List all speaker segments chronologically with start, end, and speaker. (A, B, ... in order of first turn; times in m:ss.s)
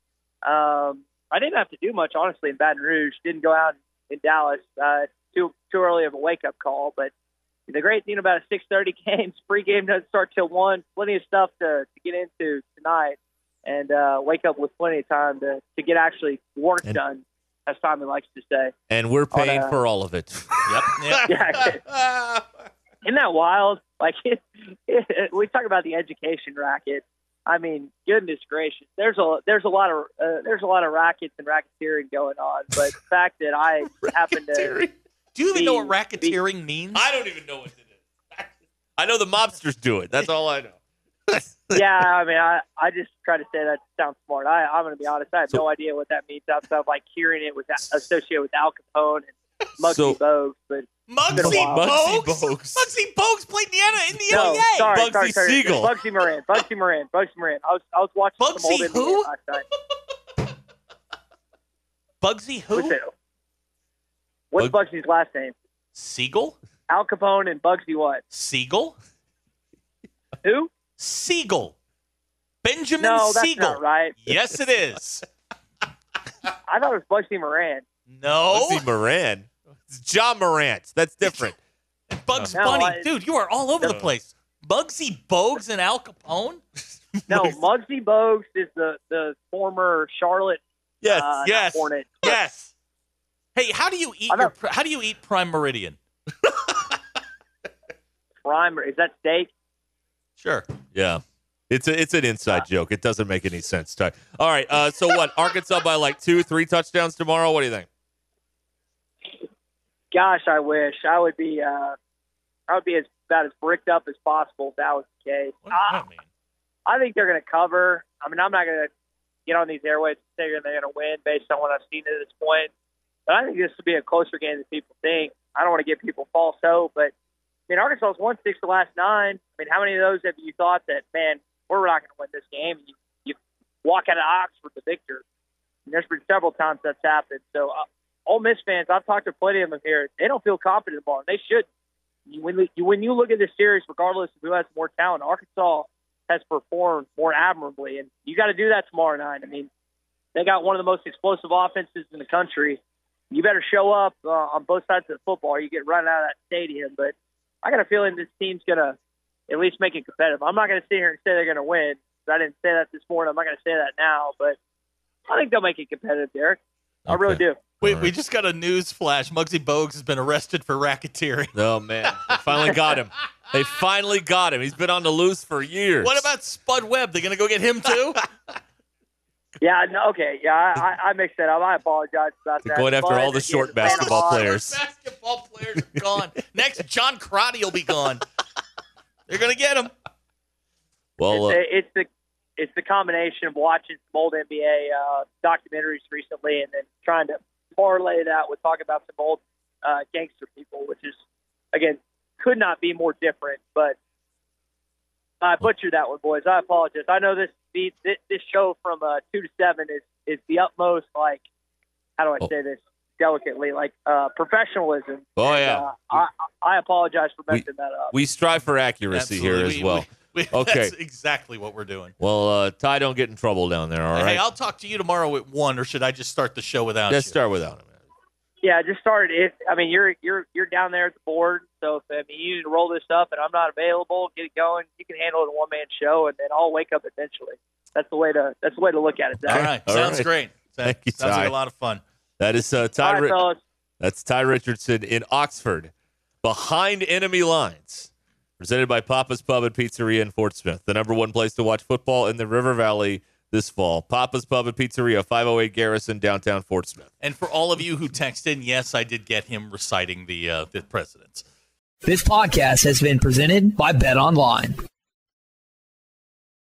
0:00.4-0:07.1 A
0:07.7-0:18.7 A
0:18.9-0:22.4 B
0:19.3-0:19.7 A
0:20.7-0:21.3 C
0:21.2-0:21.8 A
0:23.0-0:34.7 A
0:34.3-0:34.9 B
0:35.3-0:37.0 C
0:35.5-0:36.4 A
0:36.9-0:40.8 B
0:41.3-0:41.9 B
0:41.7-0:52.0 A
0:49.8-0:50.2 B
0:51.1-0:55.1 C
0:51.4-0:52.9 B
0:54.3-0:59.6 A
0:54.3-0:55.9 B
0:58.4-0:59.3 C
1:02.2-1:03.0 C
1:02.7-1:03.1 A
1:04.5-1:05.5 A
1:05.9-1:06.6 C
1:06.9-1:08.2 A
1:08.3-1:09.0 C
1:10.4-1:10.7 A
1:11.0-1:11.7 C
1:12.6-1:15.2 C
1:13.0-1:14.2 A
1:16.7-1:17.8 A
1:18.1-1:18.8 C
1:18.5-1:21.6 B
1:22.1-1:26.6 C
1:22.3-1:22.7 B
1:22.5-1:23.1 A
1:23.8-1:24.1 B
1:27.3-1:32.3 A
1:31.0-1:32.7 C
1:33.5-1:36.0 C
1:38.4-1:39.5 A
1:40.4-1:40.7 C
1:40.9-1:47.9 B
1:50.1-1:52.0 A
1:52.7-1:56.0 A
1:55.6-1:56.3 C
1:56.9-1:58.9 A
1:59.5-2:02.7 A
2:03.3-2:07.1 A
2:07.7-2:15.2 A
2:15.9-2:21.6 A
2:22.3-2:29.7 A
2:30.3-2:39.0 A
2:39.5-2:44.6 A
2:45.3-2:47.7 A
2:47.1-2:48.1 B
2:47.8-2:51.5 C
2:51.5-2:56.3 B
2:52.0-2:52.7 C
2:56.0-2:58.2 C
2:59.6-3:04.5 A
3:02.6-3:04.8 B
3:03.8-3:08.2 C
3:09.3-3:09.9 C
3:11.2-3:11.6 B
3:11.3-3:21.2 A
3:21.7-3:24.0 A
3:25.4-3:31.4 A
3:32.2-3:38.1 A
3:35.4-3:35.9 B
3:37.5-3:40.9 B
3:39.1-3:42.1 C
3:42.2-3:44.4 B
3:44.1-3:47.4 C
3:47.1-3:48.0 B
3:48.6-3:59.8 A
3:59.5-4:00.3 B
3:59.5-4:02.0 C
4:00.8-4:01.5 B
4:02.4-4:03.4 B
4:03.0-4:03.6 A
4:04.0-4:17.1 B
4:17.2-4:21.4 C
4:22.0-4:24.8 D